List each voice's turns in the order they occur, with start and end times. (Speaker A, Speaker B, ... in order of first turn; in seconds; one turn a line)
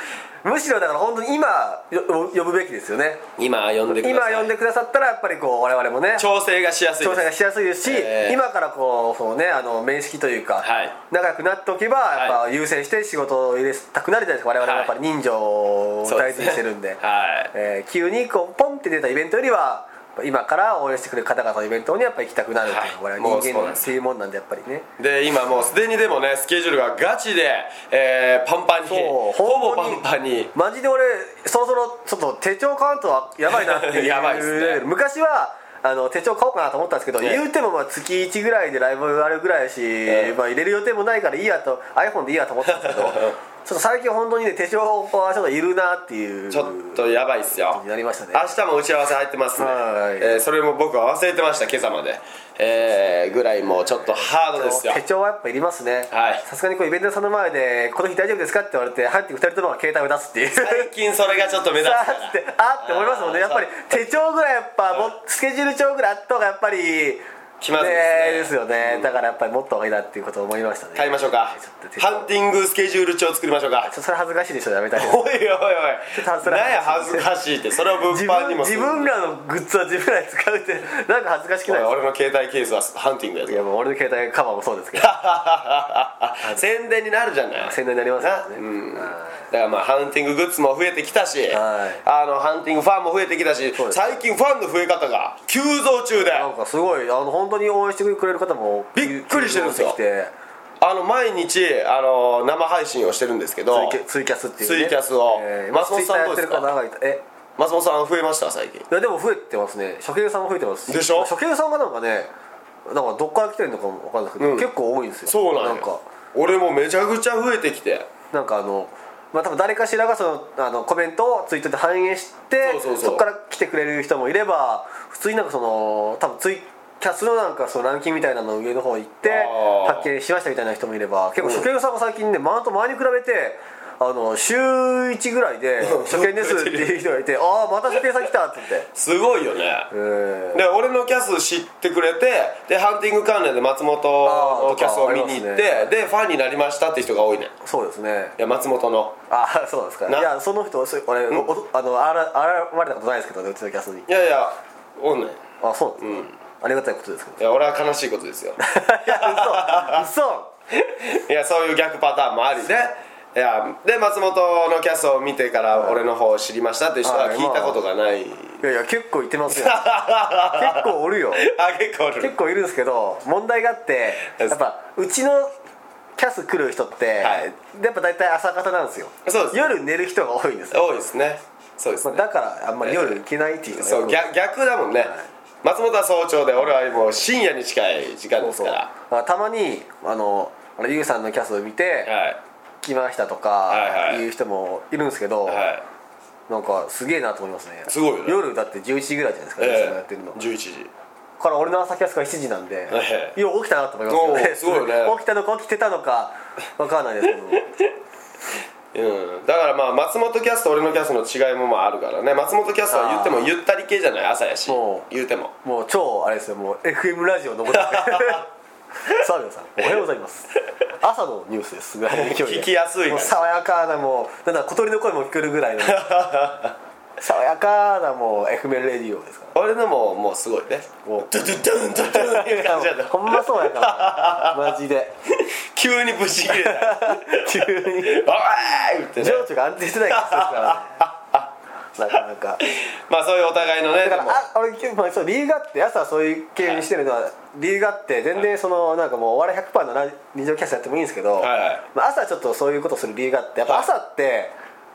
Speaker A: 0.4-3.2
Speaker B: 3.4-4.5
Speaker A: 3.9-6.3
Speaker B: 6.2-7.3
Speaker A: 7.0-17.0
Speaker B: 7.8-8.4
Speaker B: 10.6-11.0
Speaker B: 12.1-12.4
Speaker B: 14.6-14.9
Speaker B: 16.1-17.5
Speaker A: 17.5-24.9
Speaker B: 22.6-23.9
Speaker B: 25.0-30.5
Speaker A: 28.9-30.0
Speaker A: 30.5-48.5
Speaker B: 33.5-34.8
Speaker B: 40.1-40.4
Speaker B: 42.7-43.4
Speaker B: 46.5-47.8
Speaker B: 48.3-55.0
Speaker A: 49.6-50.4
Speaker A: 54.3-60.9
Speaker B: 56.1-56.4
Speaker B: 60.6-64.1
Speaker A: 61.8-67.2
Speaker B: 67.6-69.1
Speaker A: 67.8-72.3
Speaker B: 71.0-73.9
Speaker A: 73.8-75.2
Speaker B: 75.0-79.1
Speaker A: 76.1-77.3
Speaker A: 78.1-81.9
Speaker B: 81.7-83.6
Speaker A: 83.5-85.1
Speaker B: 85.0-96.5
Speaker A: 87.6-89.3
Speaker A: 91.5-92.0
Speaker A: 93.8-94.1
Speaker A: 96.2-100.3
Speaker B: 99.0-100.0
Speaker B: 100.8-104.0
Speaker A: 103.7-107.2
Speaker B: 104.6-106.7
Speaker B: 107.6-108.9
Speaker A: 108.9-112.3
Speaker B: 110.9-111.3
Speaker A: 112.9-116.0
Speaker B: 114.4-114.7
Speaker B: 115.3-118.1
Speaker A: 118.3-138.9
Speaker B: 122.6-123.2
Speaker B: 129.2-130.1
Speaker B: 131.4-131.7
Speaker B: 135.8-137.0
Speaker B: 138.9-139.9
Speaker A: 139.9-140.6
Speaker B: 140.5-147.5
Speaker A: 144.2-145.9
Speaker A: 147.6-148.4
Speaker B: 148.4-149.2
Speaker A: 149.3-154.1
Speaker B: 154.1-155.4
Speaker A: 155.6-157.4
Speaker B: 156.0-156.3
Speaker B: 157.4-160.1
Speaker A: 158.6-160.5
Speaker B: 160.7-168.6
Speaker A: 165.7-166.0
Speaker A: 167.0-167.8
Speaker A: 168.6-169.8
Speaker B: 169.5-172.3
Speaker A: 170.5-171.5
Speaker A: 172.2-175.5
Speaker B: 174.3-174.6
Speaker A: 176.2-180.8
Speaker B: 177.2-177.5
Speaker B: 179.3-179.7
Speaker B: 180.7-182.2
Speaker A: 182.0-184.2
Speaker B: 182.8-183.2
Speaker B: 183.7-188.9
Speaker A: 185.0-185.3
Speaker A: 188.4-192.1
Speaker B: 192.1-192.4
Speaker A: 192.8-195.7
Speaker B: 193.7-194.2
Speaker B: 195.5-195.8
Speaker A: 196.5-200.4
Speaker B: 197.9-198.4
Speaker B: 199.6-200.9
Speaker A: 201.4-207.8
Speaker B: 202.9-203.4
Speaker B: 204.1-205.2
Speaker B: 208.9-215.5
Speaker A: 212.9-213.5
Speaker A: 214.7-215.1
Speaker A: 215.6-218.5
Speaker B: 217.7-218.4
Speaker A: 219.1-226.1
Speaker B: 222.1-223.4
Speaker B: 225.8-226.7
Speaker A: 227.2-229.5
Speaker B: 229.5-234.8
Speaker A: 232.1-235.1
Speaker B: 235.3-239.5
Speaker A: 236.5-238.3
Speaker A: 239.2-240.9
Speaker B: 240.1-241.5
Speaker A: 242.0-242.6
Speaker B: 242.6-244.4
Speaker A: 244.0-254.6
Speaker B: 251.4-251.8